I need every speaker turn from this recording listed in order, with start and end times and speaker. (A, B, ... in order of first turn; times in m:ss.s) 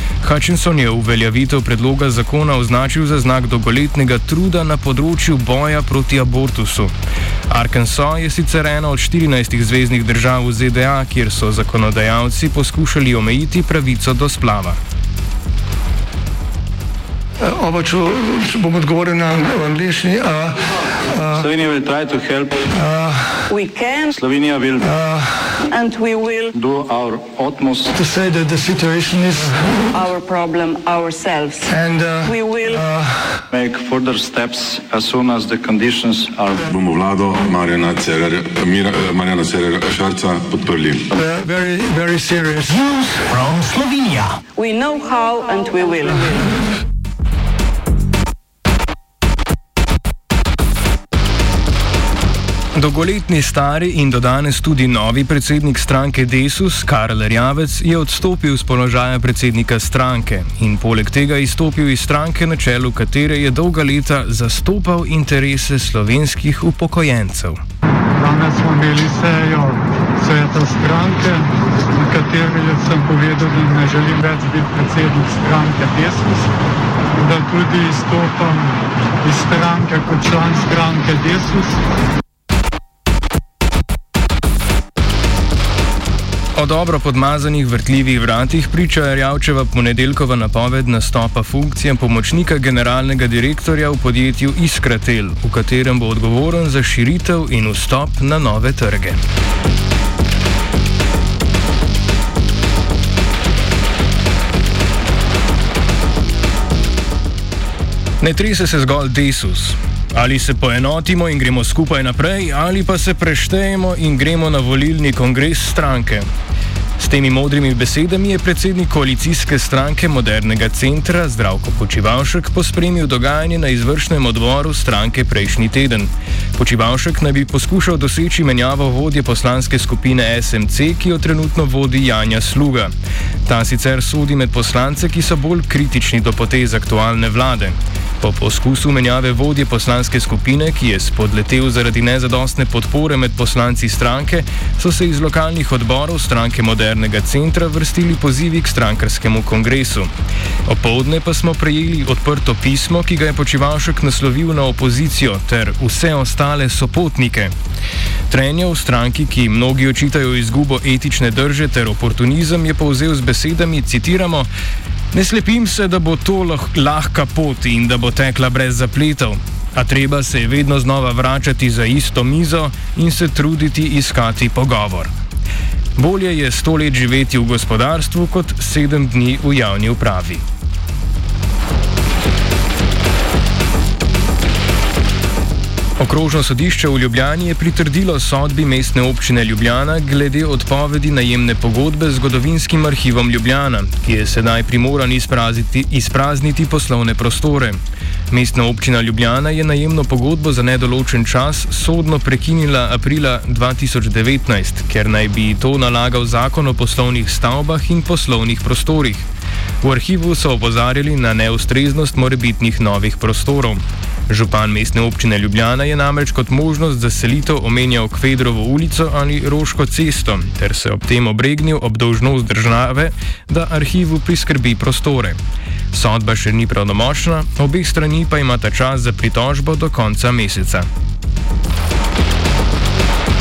0:00.2-0:06.9 A
0:07.5-0:14.8 A
0:17.4-0:21.5 B
0:21.4-0:22.7 C
0:22.7-0:23.4 B
0:23.5-0:24.1 D
0:24.1-0:24.9 C
0:24.8-0:25.5 B
0:25.6-0:26.5 D
0:26.5-0:27.9 C
0:27.9-0:29.8 B
0:29.9-0:31.7 D
0:31.7-0:33.4 B
0:32.2-0:32.8 D
0:33.5-0:36.6 C
0:36.7-0:41.0 E
0:41.1-0:44.0 B
0:44.5-0:46.5 D
0:52.7-1:07.6 A
1:08.2-1:16.5 F
1:17.1-1:21.8 F
1:26.6-1:39.2 A
1:48.2-1:56.2 A
1:57.0-2:12.9 A
2:13.4-2:30.1 A
2:30.6-2:37.5 A
2:38.3-2:44.5 A
2:45.1-2:55.1 A
2:56.0-3:00.4 A
3:06.0-3:29.3 A
3:29.8-3:45.4 A
3:45.9-3:50.9 A